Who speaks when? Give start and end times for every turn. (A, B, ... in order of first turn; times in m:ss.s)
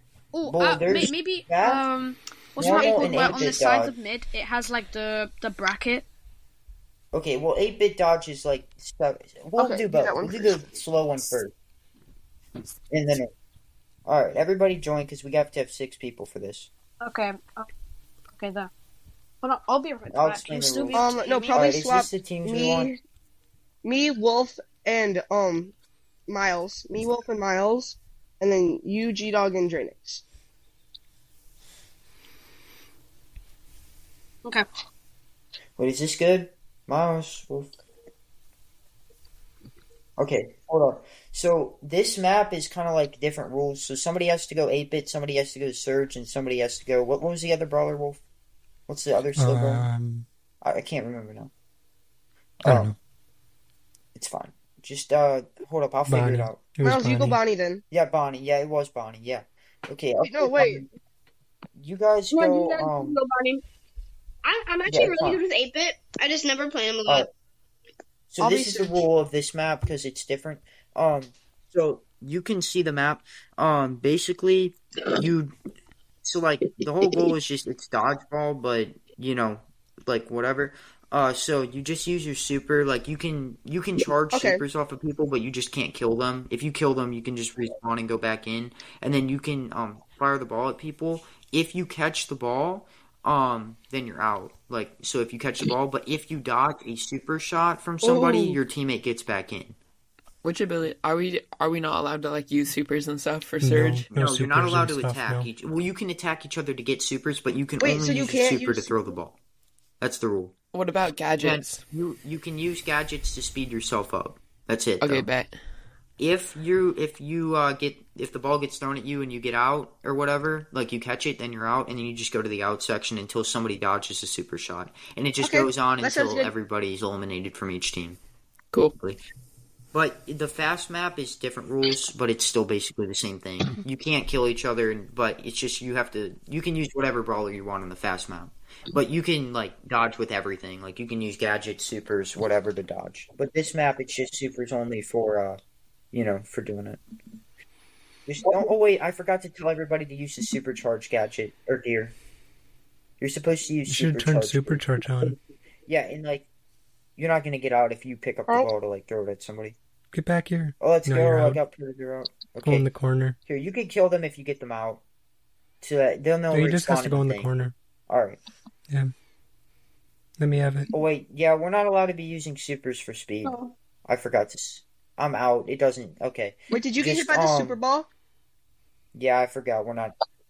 0:00.3-0:06.1 A
0:00.4-0:01.8 B
0:02.6-0:03.9 B
0:02.6-0:03.3 C
0:07.1-0:11.5 B
0:09.6-0:10.7 C
0:12.9-0:13.3 B
0:14.1-0:16.7 B
0:17.0-0:17.7 A
0:18.3-0:18.7 A
0:19.4-0:21.7 A
0:20.1-0:22.9 B
0:20.9-0:23.0 C
0:23.8-0:25.7 C
0:26.3-0:30.2 C
0:35.8-0:37.7 B
0:40.2-0:48.2 B
0:48.9-0:49.9 B
0:49.4-0:50.3 D
0:50.6-0:51.5 B
0:52.6-0:52.9 B
0:52.6-0:53.0 D
0:54.2-0:56.6 B
0:56.1-0:57.4 D
0:56.8-0:57.8 C
0:57.9-1:00.9 B
1:00.2-1:00.9 C
1:01.8-1:03.2 B
1:02.3-1:03.6 E
1:04.4-1:07.3 E
1:04.9-1:05.4 B
1:08.3-1:15.6 B
1:08.4-1:08.9 C
1:16.2-1:39.8 B
1:24.3-1:24.6 C
1:38.0-1:38.6 C
1:40.4-1:44.1 F
1:43.6-1:45.5 D
1:44.1-1:49.4 B
1:47.8-1:49.2 C
1:50.0-1:50.6 B
1:50.7-1:51.8 F
1:51.4-1:55.3 B
1:55.0-1:55.6 F
1:56.2-2:08.2 B
2:05.4-2:06.5 C
2:09.9-2:25.6 B
2:26.1-2:27.0 B
2:28.3-2:32.2 B
2:33.2-2:35.4 B
2:33.9-2:35.4 D
2:35.9-2:36.5 B
2:37.2-2:39.8 B
2:40.1-2:41.6 D
2:40.8-2:42.9 B
2:42.6-2:43.4 D
2:43.5-2:45.0 B
2:45.8-2:47.5 B
2:46.5-2:47.7 D
2:48.1-2:48.4 B
2:50.4-2:50.9 D
2:50.9-2:57.8 B
2:53.4-2:53.7 E
2:56.7-2:58.1 C
2:59.1-3:00.1 B